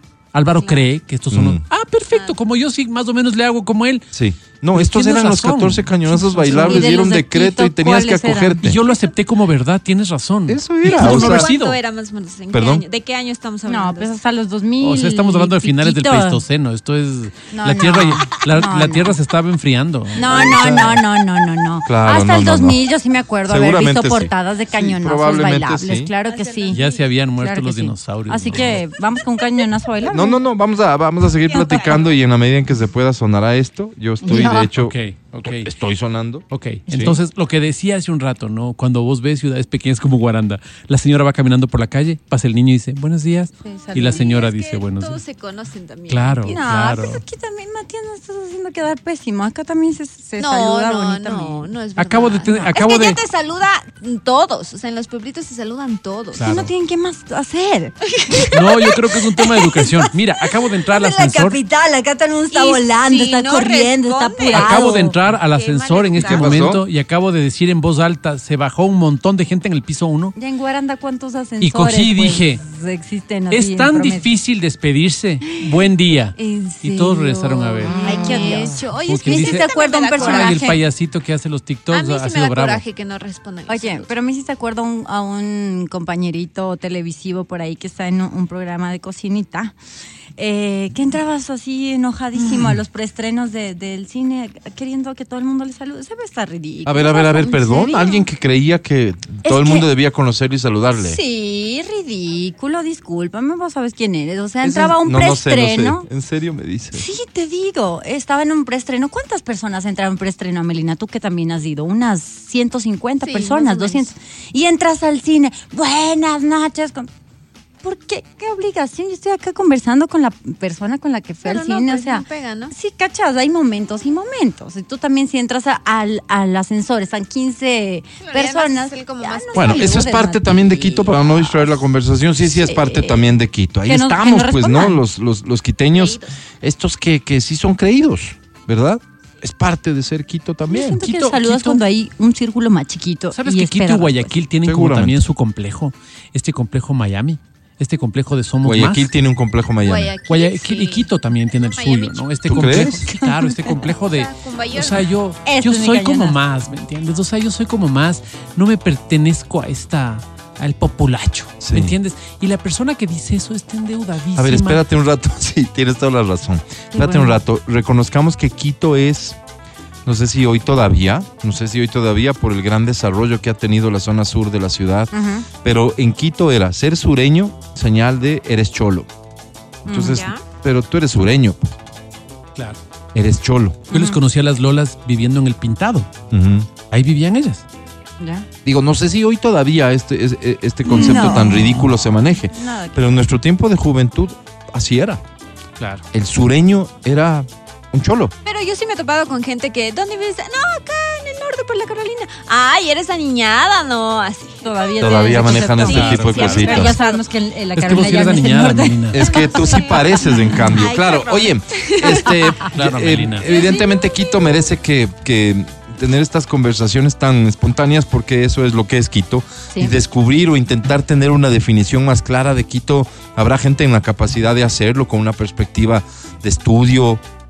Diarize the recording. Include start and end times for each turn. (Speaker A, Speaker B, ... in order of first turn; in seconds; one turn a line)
Speaker A: 0.3-4.1
Speaker B: 0.5-0.9
Speaker C: 1.3-1.6
Speaker B: 2.1-2.4
Speaker C: 4.1-8.8
Speaker A: 4.7-7.1
Speaker D: 6.4-8.6
Speaker A: 8.6-11.8
Speaker C: 10.5-11.5
Speaker B: 10.8-14.1
Speaker C: 12.5-12.8
Speaker D: 13.7-16.4
Speaker A: 14.8-21.0
Speaker D: 17.5-19.2
Speaker D: 20.1-26.8
Speaker C: 21.8-22.8
Speaker C: 23.5-26.1
Speaker B: 26.2-27.1
Speaker A: 26.7-28.8
Speaker D: 27.4-30.4
Speaker C: 30.1-37.1
Speaker B: 31.5-32.0
Speaker D: 34.2-34.7
Speaker A: 34.3-35.7
Speaker A: 36.5-45.2
Speaker B: 43.7-46.6
Speaker D: 43.8-44.3
Speaker A: 46.1-47.2
Speaker D: 46.4-51.7
Speaker B: 50.4-56.4
Speaker A: 52.0-53.2
Speaker D: 52.5-52.8
Speaker A: 56.3-56.7
Speaker D: 56.4-65.1
Speaker B: 58.2-58.5
Speaker A: 58.5-61.6
Speaker B: 62.5-66.6
Speaker A: 64.5-70.3
Speaker C: 66.2-66.8
Speaker D: 70.3-74.3
Speaker A: 71.6-72.6
Speaker A: 73.5-82.8
Speaker B: 76.3-80.8
Speaker D: 77.8-80.8
Speaker B: 81.9-84.1
Speaker D: 83.7-89.7
Speaker D: 90.4-98.2
Speaker C: 96.8-101.2
Speaker D: 99.5-99.9
Speaker D: 101.0-106.0
Speaker C: 104.6-107.0
Speaker D: 106.9-117.1
Speaker B: 113.2-114.0
Speaker D: 117.8-131.4
Speaker B: 121.4-122.7
Speaker B: 128.2-130.2
Speaker C: 129.5-141.0
Speaker D: 132.6-133.2
Speaker D: 133.8-135.0
Speaker B: 135.9-136.4
Speaker D: 140.7-144.3
Speaker A: 140.9-141.8
Speaker A: 143.3-149.1
Speaker C: 144.6-145.2
Speaker C: 148.6-150.1
Speaker B: 149.8-152.7
Speaker A: 150.3-164.8
Speaker C: 152.4-153.1
Speaker D: 153.1-153.6
Speaker B: 153.7-155.1
Speaker D: 155.4-156.4
Speaker C: 161.6-161.9
Speaker C: 164.3-169.4
Speaker D: 166.9-167.3
Speaker C: 170.1-175.1
Speaker D: 175.1-175.5
Speaker C: 175.6-179.1
Speaker C: 179.8-181.7
Speaker D: 179.9-180.2
Speaker B: 179.9-180.4
Speaker C: 183.1-183.8
Speaker A: 183.9-186.1
Speaker D: 183.9-184.2
Speaker C: 186.3-186.7
Speaker A: 186.9-187.6
Speaker D: 188.2-188.4
Speaker C: 188.6-195.2
Speaker D: 190.8-191.9
Speaker D: 192.5-192.9
Speaker A: 195.8-196.1
Speaker C: 196.1-198.3
Speaker B: 198.4-207.2
Speaker D: 204.6-209.4
Speaker C: 205.0-206.9
Speaker A: 205.9-206.9
Speaker A: 207.7-209.2
Speaker C: 209.1-227.2
Speaker B: 209.2-212.6
Speaker D: 210.4-210.7
Speaker A: 212.7-213.5
Speaker B: 213.4-214.6